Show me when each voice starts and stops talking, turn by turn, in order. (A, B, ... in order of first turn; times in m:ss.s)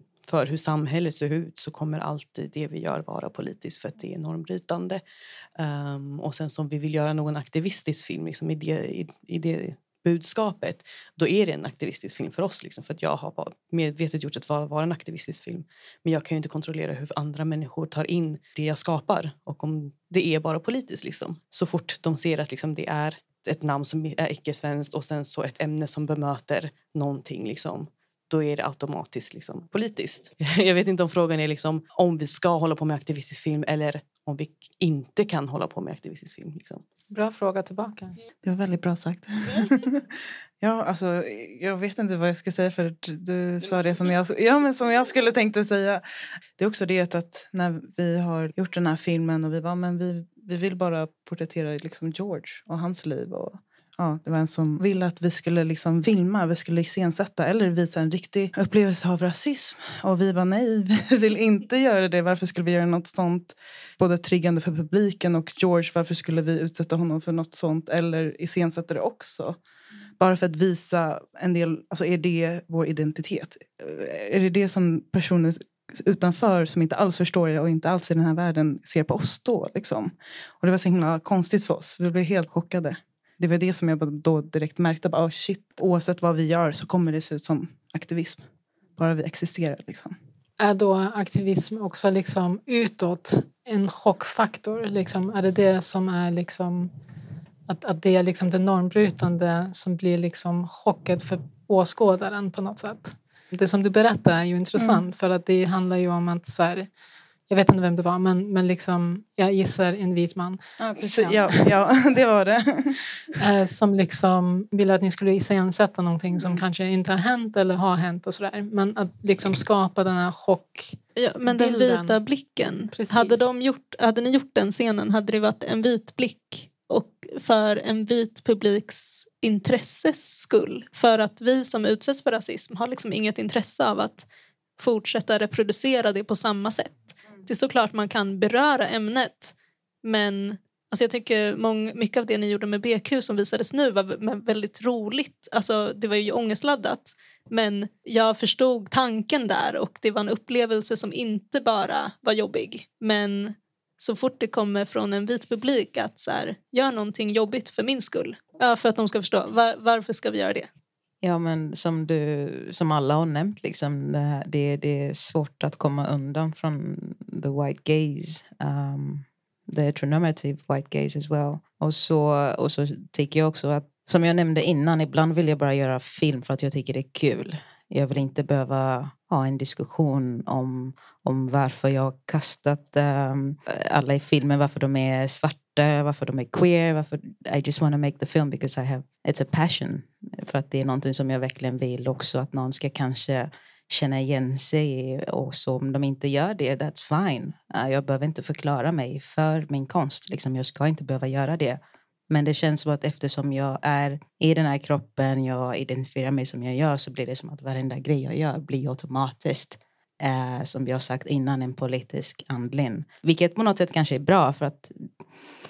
0:00.2-0:05.0 A
0:05.6-0:36.8 A
0:37.1-0:38.2 B
0:38.4-0:40.0 C
0:40.6-0:46.0 C
0:46.6-1:09.6 C
1:10.2-1:28.4 C
1:29.0-1:30.1 C
1:30.6-1:36.9 B
1:37.7-1:46.9 B
1:44.8-1:45.0 C
1:47.5-1:50.6 B
1:50.8-1:53.0 C
1:51.2-1:51.7 B
1:53.4-2:02.2 B
2:01.2-2:14.2 D
2:02.9-2:03.4 B
2:14.8-2:40.7 D
2:41.2-3:35.1 E